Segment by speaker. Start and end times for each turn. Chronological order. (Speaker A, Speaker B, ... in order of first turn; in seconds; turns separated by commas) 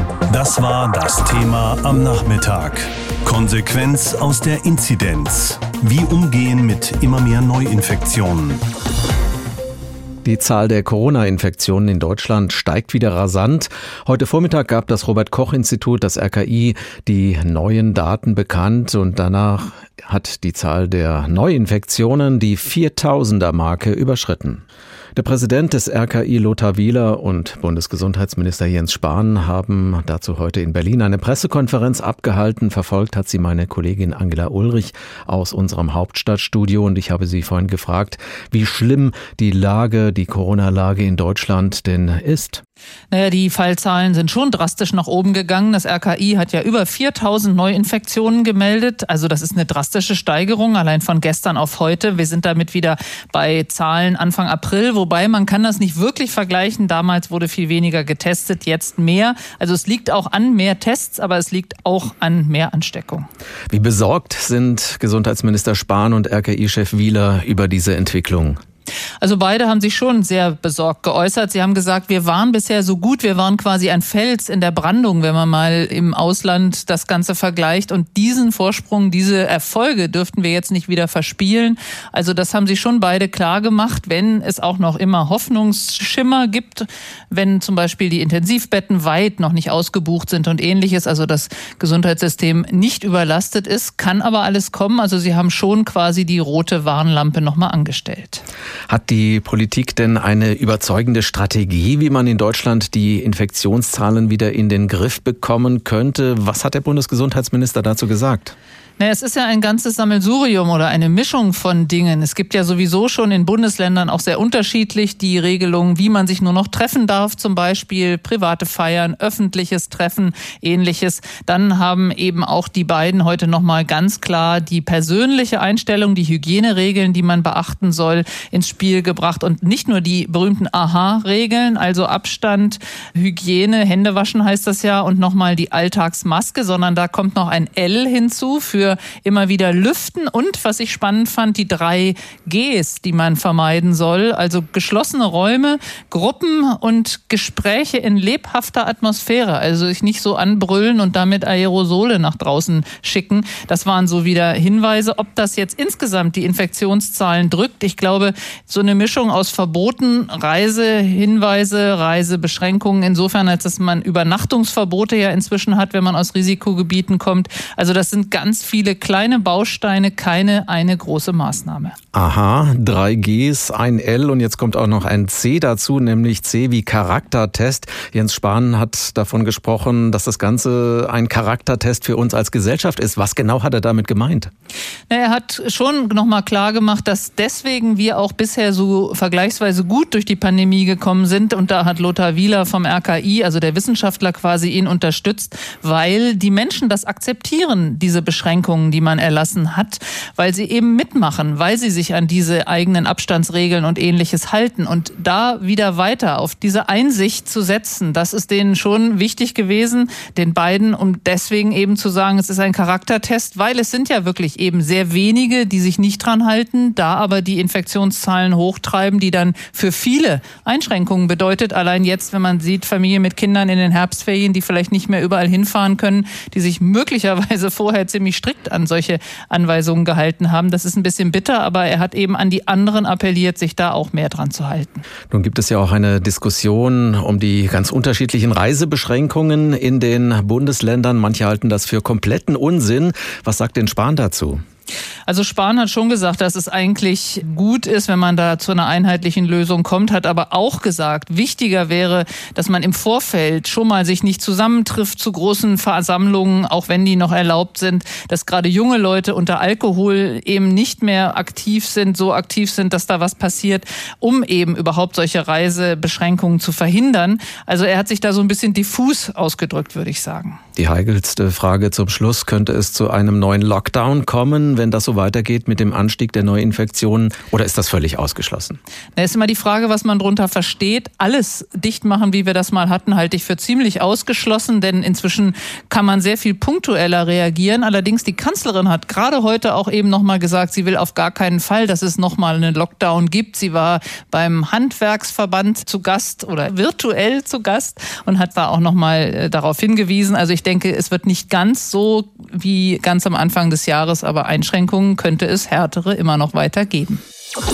Speaker A: 0.3-8.6, Speaker B: 10.2-24.6, Speaker B: 25.1-42.6, Speaker C: 43.1-63.3, Speaker B: 63.7-68.6, Speaker C: 69.2-98.4, Speaker B: 98.9-108.5, Speaker C: 109.0-171.9, Speaker B: 172.1-184.5, Speaker C: 185.1-235.0, Speaker B: 235.3-244.6, Speaker C: 245.3-270.6, Speaker B: 270.8-278.8, Speaker C: 279.1-307.2